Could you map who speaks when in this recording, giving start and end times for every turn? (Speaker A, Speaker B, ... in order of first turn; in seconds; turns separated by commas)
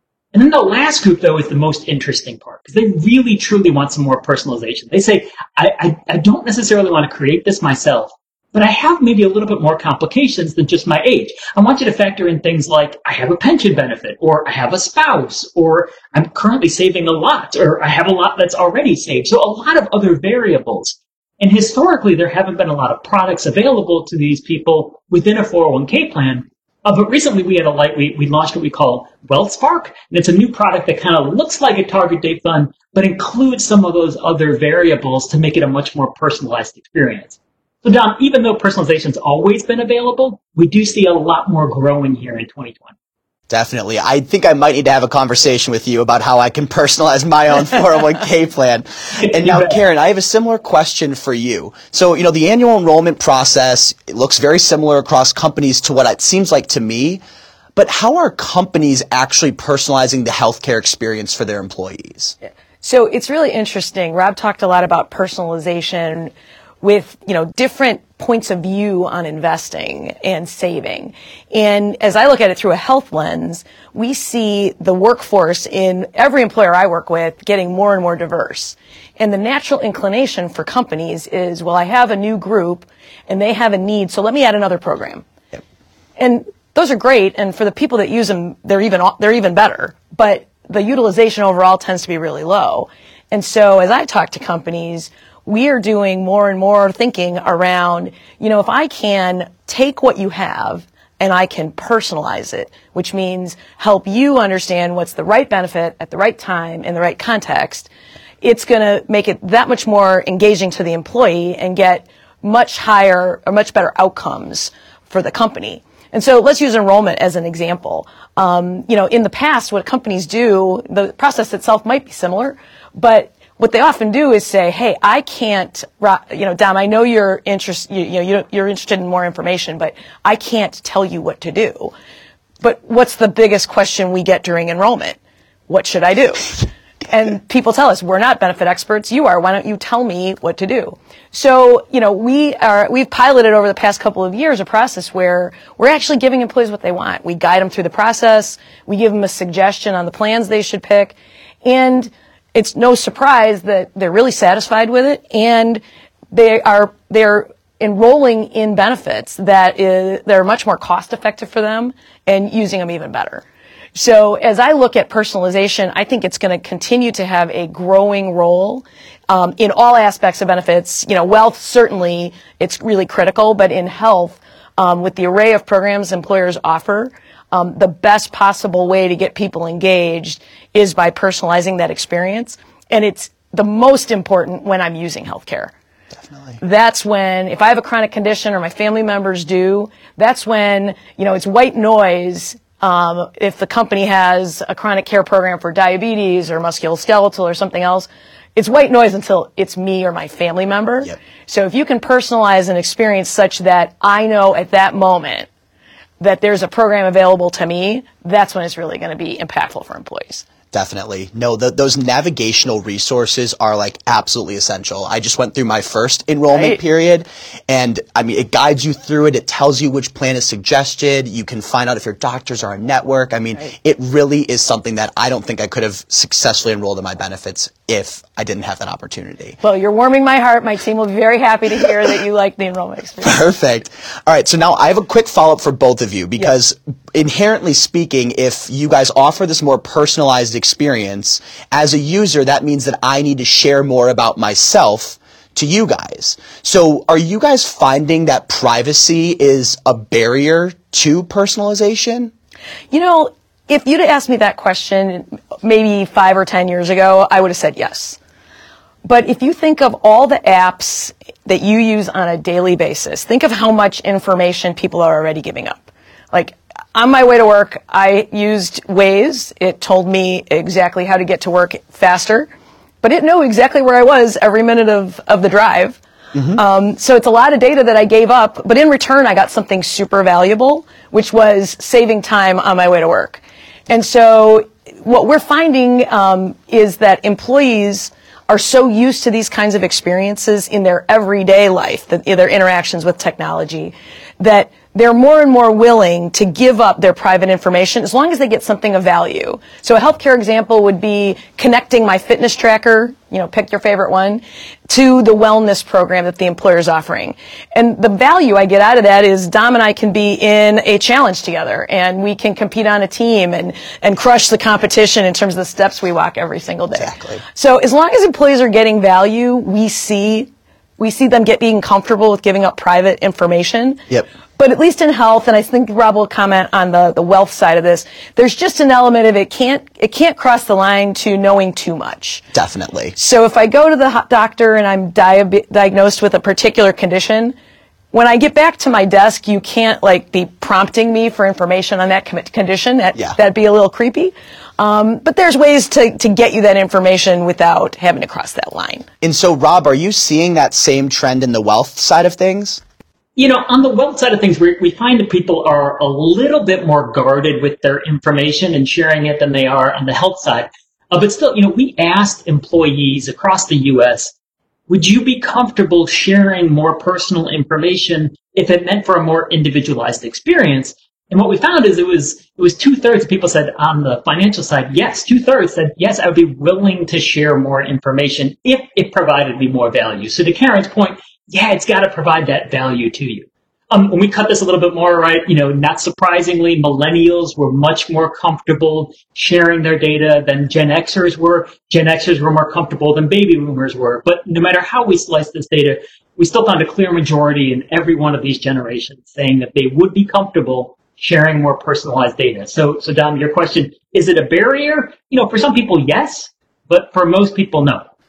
Speaker A: 0.3-42.9, Speaker B: 43.5-57.2, Speaker A: 49.2-49.8, Speaker B: 57.8-62.4, Speaker C: 62.8-85.2, Speaker C: 86.2-107.9, Speaker C: 108.4-131.9, Speaker C: 132.6-155.8, Speaker C: 156.3-163.4, Speaker C: 163.9-185.7, Speaker B: 186.3-186.6, Speaker C: 186.6-205.5, Speaker C: 206.2-210.5, Speaker B: 210.7-229.6, Speaker C: 216.5-216.8, Speaker C: 229.6-233.4, Speaker B: 233.2-252.3, Speaker C: 252.9-258.2, Speaker C: 259.0-272.5, Speaker C: 273.0-276.0, Speaker C: 276.5-324.0, Speaker B: 317.0-317.4, Speaker C: 324.6-332.4, Speaker B: 332.5-333.1, Speaker C: 333.2-337.6, Speaker C: 338.1-349.1, Speaker B: 349.2-352.8, Speaker A: 353.4-364.3, Speaker A: 364.9-408.1